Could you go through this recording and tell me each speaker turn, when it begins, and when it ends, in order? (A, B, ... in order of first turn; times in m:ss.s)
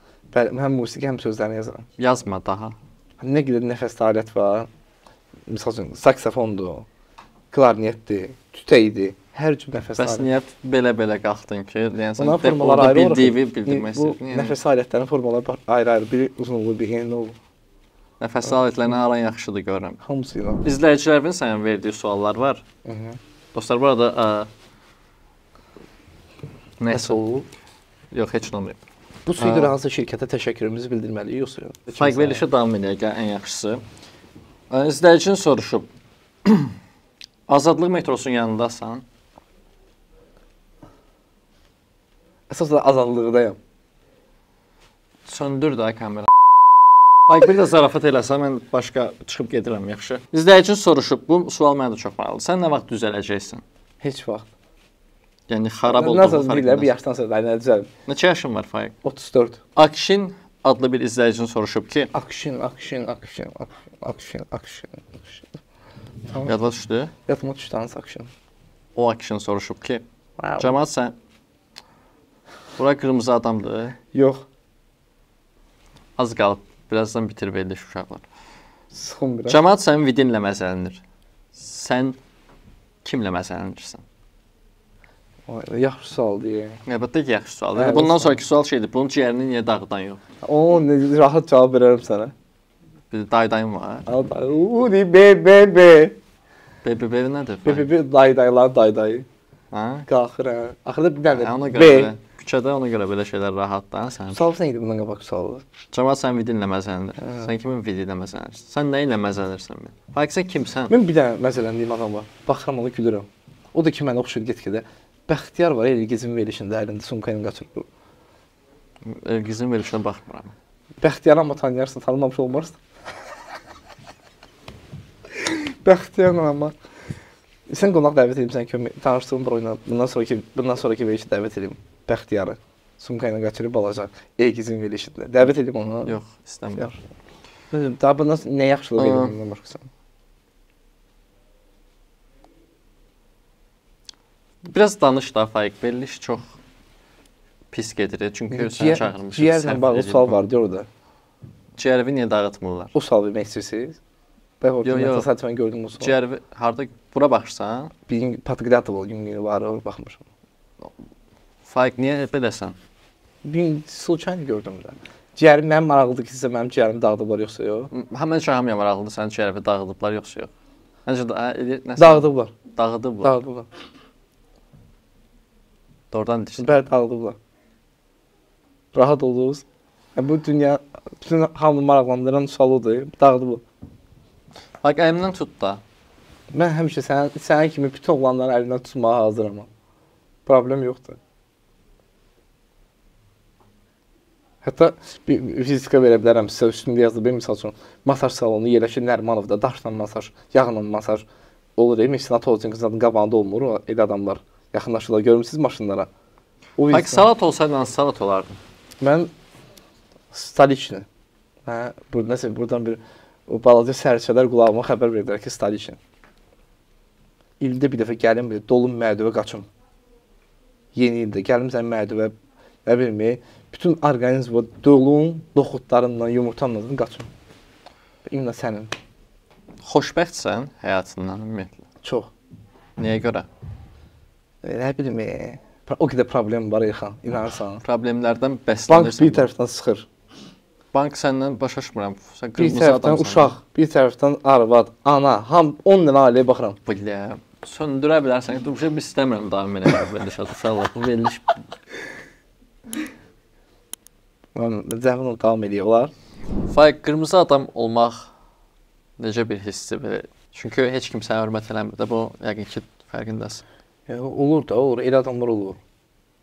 0:00.3-0:01.9 A
0:02.0-0:02.8 B
0:03.2-0:04.7 A
0:05.5-0:06.9 A
0:07.5-0:10.3 A
0:10.0-0:14.6 B
0:12.2-0:17.4 A
0:18.2-0:20.0 B
0:20.0-0:20.6 A
0:20.6-0:22.6 B
0:22.8-0:23.2 A
0:23.5-0:24.5 B
0:26.8-0:27.2 B
0:26.9-0:27.5 A
0:28.1-0:28.8 B
0:29.3-0:32.5 A
0:29.4-0:29.7 B
0:31.9-0:33.8 B
0:34.7-0:35.9 B
0:36.4-0:36.8 B
0:37.5-0:39.0 B
0:42.5-0:43.6 A
0:45.3-0:46.3 B
0:47.3-0:53.6 B
0:54.0-0:54.5 A
0:55.5-0:56.9 B
0:55.9-0:57.9 A
0:58.1-0:58.9 B
0:59.0-0:59.6 A
0:59.8-1:02.1 B
1:02.1-1:05.4 A
1:06.3-1:06.6 A
1:06.4-1:07.1 B
1:07.3-1:08.3 A
1:09.0-1:10.0 B
1:10.4-1:10.7 A
1:10.6-1:11.1 B
1:12.8-1:14.0 B
1:14.1-1:14.4 A
1:16.2-1:18.3 B
1:18.9-1:19.6 A
1:19.5-1:21.0 B
1:21.6-1:22.2 B
1:23.0-1:24.0 B
1:25.5-1:26.8 A
1:26.8-1:30.2 B
1:27.7-1:28.4 A
1:30.4-1:32.3 A
1:33.1-1:34.1 B
1:34.1-1:36.2 A
1:36.8-1:37.9 B
1:37.6-1:39.3 A
1:39.7-1:40.1 B
1:40.1-1:42.1 A
1:41.3-1:44.4 B
1:44.3-1:45.6 A
1:45.9-1:51.0 B
1:47.2-1:47.5 A
1:50.9-1:57.9 A
1:59.0-2:00.5 B
2:01.0-2:02.8 A
2:05.5-2:06.7 A
2:07.7-2:16.2 A
2:16.1-2:17.0 B
2:17.7-2:19.9 A
2:19.0-2:19.4 B
2:24.7-2:26.5 B
2:27.7-2:30.4 B
2:28.5-2:30.9 A
2:31.8-2:32.9 B
2:32.9-2:34.0 A
2:34.6-2:36.2 A
2:34.8-2:35.3 B
2:36.0-2:37.9 B
2:38.1-2:40.2 A
2:41.7-2:42.8 B
2:43.4-2:47.9 A
2:47.9-2:50.5 B
2:51.1-2:53.3 B
2:52.0-2:52.5 A
2:53.2-2:53.7 A
2:56.1-2:56.7 B
2:56.6-2:57.4 A
2:58.9-2:59.6 A
3:00.2-3:03.6 A
3:04.8-3:05.8 B
3:06.5-3:09.7 A
3:10.5-3:11.2 A
3:14.6-3:21.2 A
3:21.8-3:26.1 A
3:26.8-3:27.3 A
3:26.9-3:28.6 B
3:29.0-3:29.3 A
3:30.3-3:31.0 A
3:31.6-3:36.0 A
3:37.6-3:39.7 A
3:40.9-3:42.3 A
3:42.8-3:47.3 A
3:48.3-3:48.9 A
3:49.8-3:51.8 B
3:52.0-3:52.3 A
3:53.0-3:53.5 B
3:54.6-3:57.8 A
3:57.8-3:59.5 B
3:58.9-4:00.1 A
4:00.9-4:03.5 B
4:02.6-4:06.8 A
4:06.9-4:11.5 B
4:14.6-4:16.1 A
4:16.7-4:18.3 B
4:19.2-4:23.6 B
4:24.1-4:25.8 A